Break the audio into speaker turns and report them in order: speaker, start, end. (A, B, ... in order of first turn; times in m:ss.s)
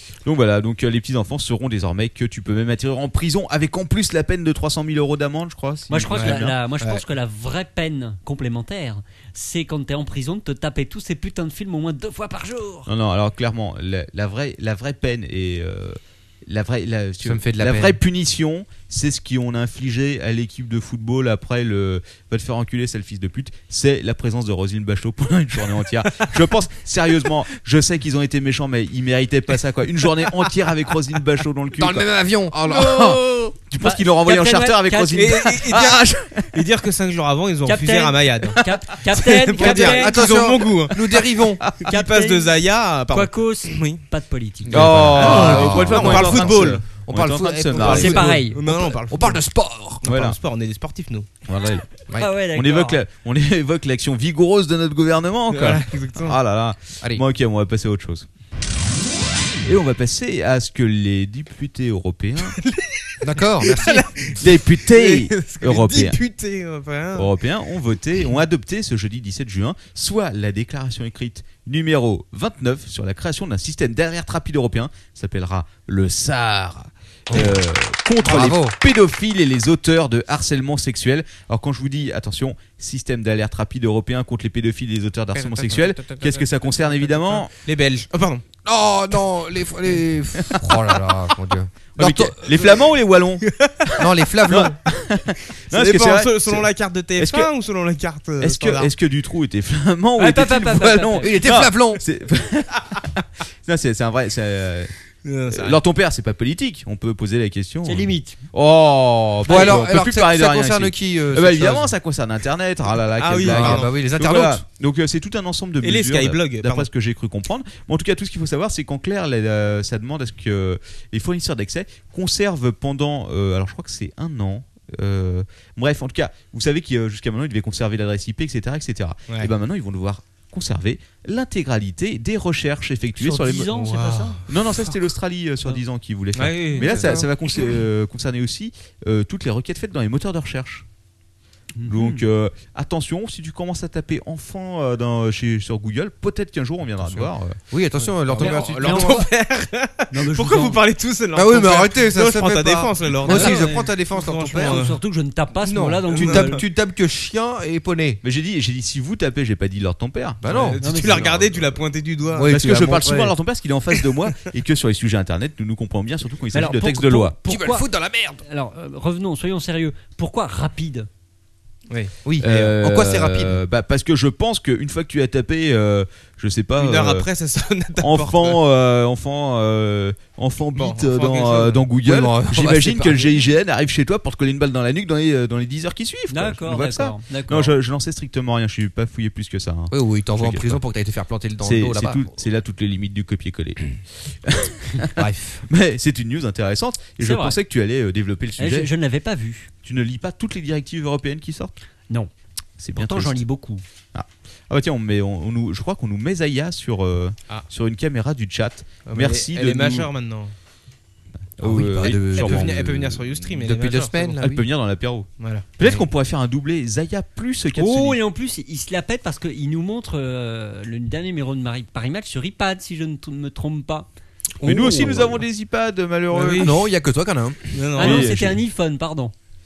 0:00.2-0:06.6 A
0:05.9-0:12.9 B
0:06.1-0:07.0 C
0:12.9-0:36.6 A
0:17.2-0:18.0 D
0:31.8-0:33.5 D
0:33.8-0:35.6 B
0:35.1-0:41.0 C
0:37.6-0:40.2 B
0:39.6-0:41.6 D
0:41.8-0:44.0 C
0:41.9-0:42.5 B
0:43.1-0:44.8 B
0:44.7-0:50.0 D
0:44.7-0:48.2 A
0:44.7-0:46.9 C
0:47.8-0:49.4 C
0:47.9-0:48.6 B
0:50.0-0:51.3 C
0:50.0-0:50.4 A
0:51.5-0:51.9 A
0:52.2-0:53.0 B
0:52.5-0:58.2 A
0:55.5-0:56.4 C
0:59.6-1:02.6 A
1:02.5-1:07.3 C
1:03.2-1:04.1 D
1:04.4-1:06.2 A
1:07.1-1:27.5 A
1:18.2-1:18.8 D
1:25.4-1:26.5 D
1:27.6-1:28.4 C
1:28.6-1:32.6 D
1:30.4-1:30.8 A
1:31.9-1:37.5 A
1:33.4-1:34.0 C
1:34.0-1:34.7 D
1:35.7-1:38.9 C
1:38.4-1:44.9 A
1:40.2-1:41.3 B
1:41.2-1:42.0 D
1:45.2-1:45.8 C
1:45.5-2:13.8 A
1:47.8-1:48.4 B
1:49.4-1:51.9 D
1:49.5-1:49.7 B
1:53.2-1:53.9 C
1:53.4-1:54.6 D
1:55.8-1:56.9 C
2:13.2-2:14.4 B
2:13.7-2:14.5 C
2:14.5-2:20.8 A
2:16.3-2:17.2 C
2:21.8-2:22.2 B
2:21.9-2:27.6 A
2:27.0-2:29.3 D
2:28.2-2:35.0 C
2:28.4-2:29.3 B
2:30.1-2:30.8 B
2:31.3-2:34.8 D
2:33.2-2:33.9 B
2:34.5-2:36.6 B
2:35.6-2:38.2 D
2:36.1-2:36.6 C
2:38.2-2:40.4 A
2:40.4-2:41.3 D
2:40.4-2:42.5 C
2:40.8-2:41.4 B
2:42.3-2:43.3 D
2:42.5-2:47.4 A
2:46.5-2:47.9 B
2:47.4-2:48.4 D
2:48.4-2:51.1 B
2:51.9-2:52.1 C
2:52.2-2:53.6 D
2:52.4-2:57.3 A
2:56.8-2:58.6 C
2:58.0-3:10.8 A
3:00.7-3:01.8 C
3:02.0-3:03.4 D
3:06.3-3:07.7 B
3:09.9-3:12.2 D
3:11.6-3:18.9 A
3:15.1-3:15.6 D
3:17.2-3:17.6 B
3:18.6-3:19.7 B
3:19.8-3:21.7 A
3:22.8-3:23.4 A
3:22.9-3:23.8 B
3:24.1-3:30.1 A
3:29.1-3:30.5 C
3:31.6-3:33.1 A
3:31.6-3:34.6 D
3:32.3-3:34.4 C
3:34.4-3:38.2 A
3:35.4-3:35.7 C
3:35.8-3:36.0 D
3:37.7-3:44.1 B
3:44.6-3:45.4 D
3:44.6-3:46.8 A
3:46.3-3:46.7 C
3:46.4-3:48.1 D
3:47.7-3:48.3 C
3:48.0-3:49.3 B
3:48.0-3:48.5 A